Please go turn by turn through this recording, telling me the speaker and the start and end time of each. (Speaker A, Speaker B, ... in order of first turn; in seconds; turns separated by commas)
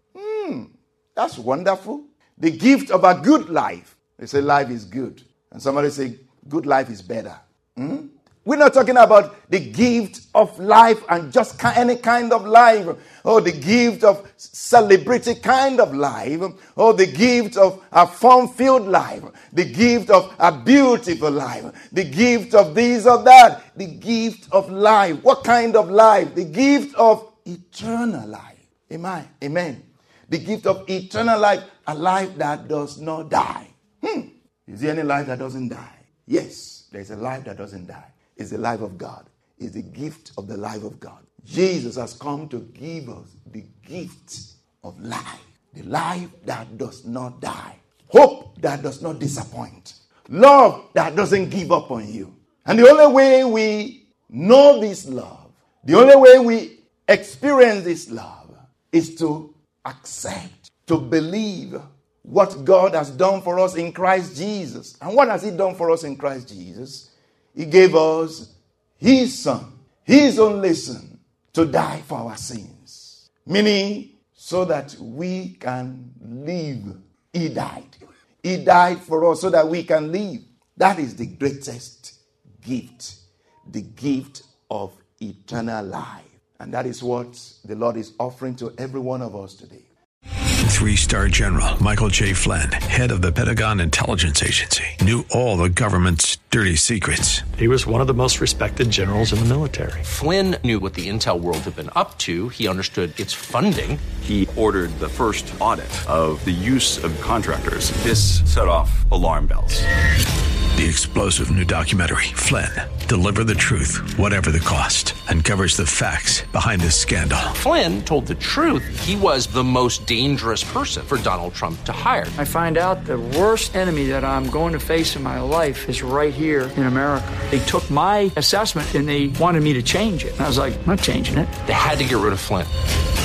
Speaker A: 0.2-83.2, Speaker A: 83.7-89.9, Speaker B: 90.7-97.5, Speaker C: 97.6-100.0, Speaker D: 100.0-104.0, Speaker E: 104.2-109.8, Speaker B: 110.8-117.5, Speaker D: 117.5-122.3, Speaker F: 122.4-131.6, Speaker D: 131.7-132.7